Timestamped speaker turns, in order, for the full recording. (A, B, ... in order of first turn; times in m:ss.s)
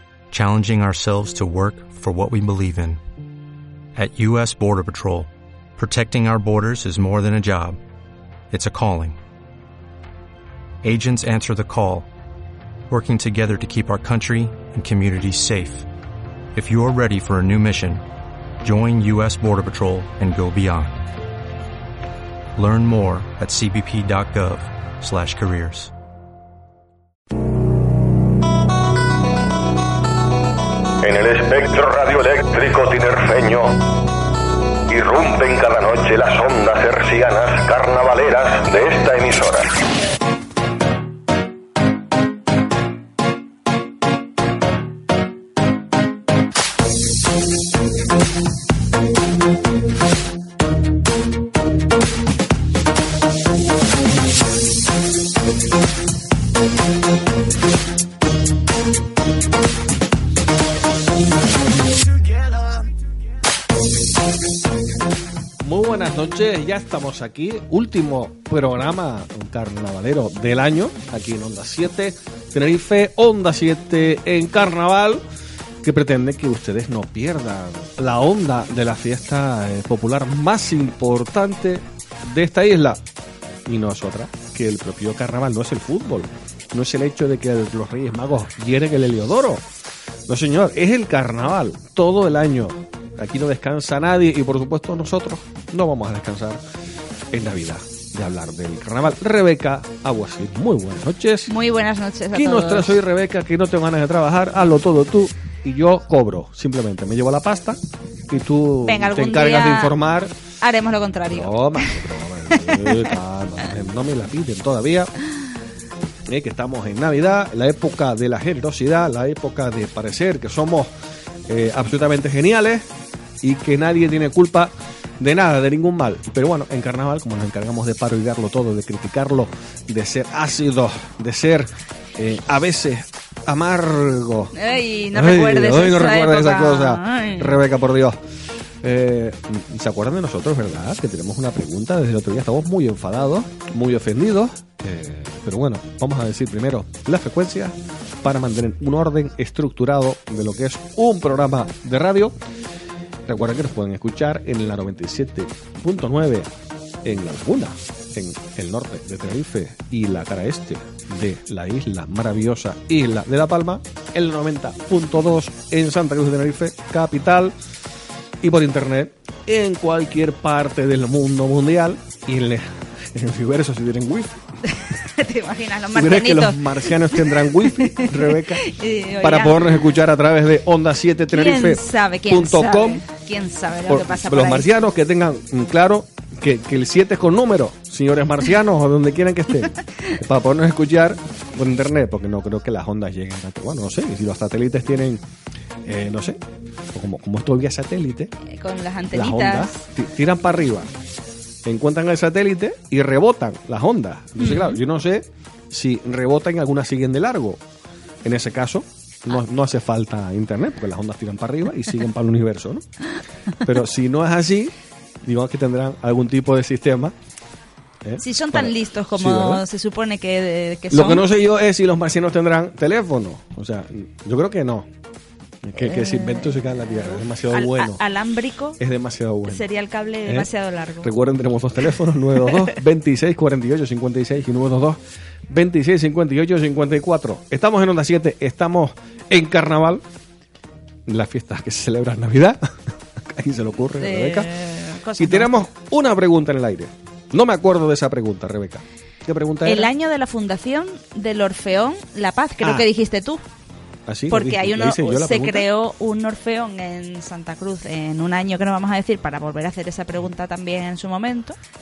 0:00.3-0:03.0 A
0:04.0-0:07.8 A
0:08.5-0:09.2 A
0:10.8-0:12.1 A
0:12.9-0:15.9 A
0:16.5-0:18.0 A
0:18.6-0:21.0 A
0:22.6-0:25.9 A
0:31.0-0:33.9 B
0:34.9-0:39.7 B
1:05.6-1:15.2 C
1:15.8-1:23.0 C
1:23.7-1:29.7 C
1:30.3-1:36.6 C
1:37.3-1:41.5 C
1:41.5-1:43.0 D
1:42.3-1:50.3 C
1:48.8-1:50.0 D
1:50.6-1:53.1 D
1:51.3-1:55.1 C
1:56.3-2:00.9 C
2:01.5-2:02.9 C
2:03.4-2:14.5 C
2:14.5-2:17.6 D
2:15.1-2:18.2 C
2:18.8-2:32.4 C
2:33.2-2:36.5 C
2:37.0-2:47.5 C
2:48.4-2:54.4 C
2:54.8-2:59.8 D
2:55.9-2:58.6 C
2:59.2-3:03.0 C
3:01.3-3:04.7 D
3:03.9-3:15.2 C
3:15.8-3:16.4 C
3:16.9-3:18.3 C
3:18.4-3:19.8 D
3:19.1-3:20.9 C
3:21.6-3:27.6 C
3:24.4-3:24.8 D
3:28.2-3:32.8 C
3:33.6-3:37.1 C
3:38.0-3:39.6 C
3:38.2-3:41.2 D
3:40.9-3:44.9 C
3:45.6-3:48.0 C
3:45.8-3:48.8 D
3:48.8-3:49.7 C
3:49.4-3:51.1 D
3:50.2-3:50.5 C
3:51.0-4:00.0 C
4:01.0-4:04.5 C
4:04.0-4:05.5 D
4:05.2-4:09.9 C
4:09.6-4:13.4 D
4:12.6-4:12.9 C
4:14.1-4:15.7 C
4:14.3-4:21.6 D